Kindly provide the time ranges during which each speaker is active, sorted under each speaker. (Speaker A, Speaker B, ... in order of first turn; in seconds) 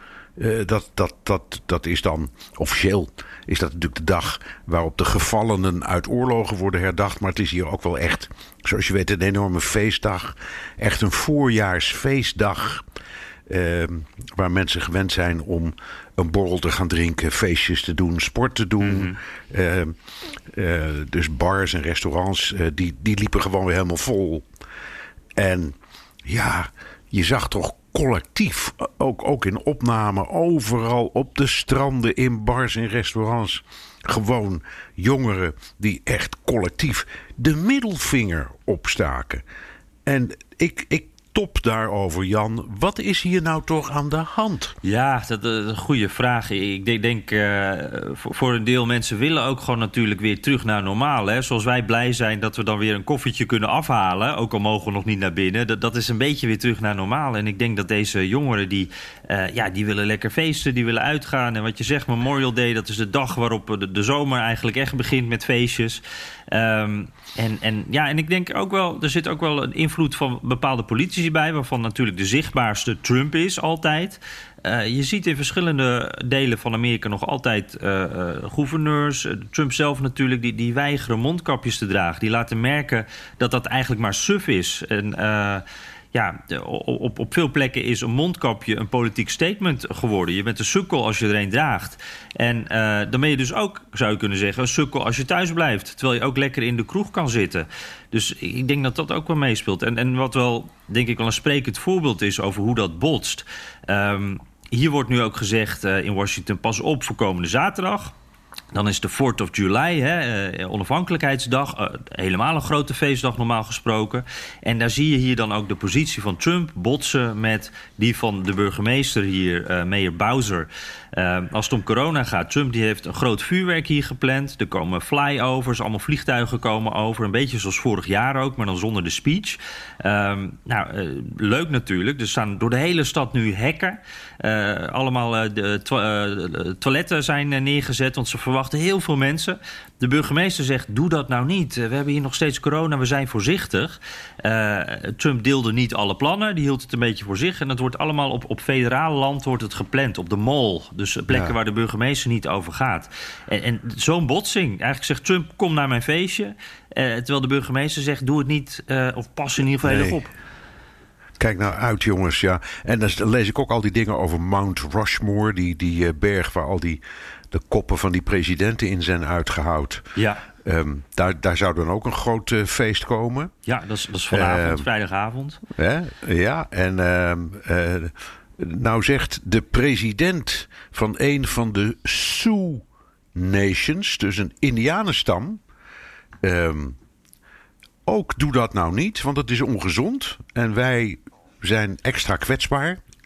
Speaker A: 0.4-12.8, 13.5-19.9, 20.5-24.4, 25.4-25.7, 26.2-39.4, 40.0-44.8, 151.3-151.5, 159.8-160.2, 161.4-170.1, 170.6-173.5, 174.3-174.9, 175.7-182.8, 183.3-185.6, 186.4-186.9, 188.1-193.0
Speaker B: 18.8-19.2, 44.8-108.1, 108.7-160.3, 170.2-170.4, 173.7-175.6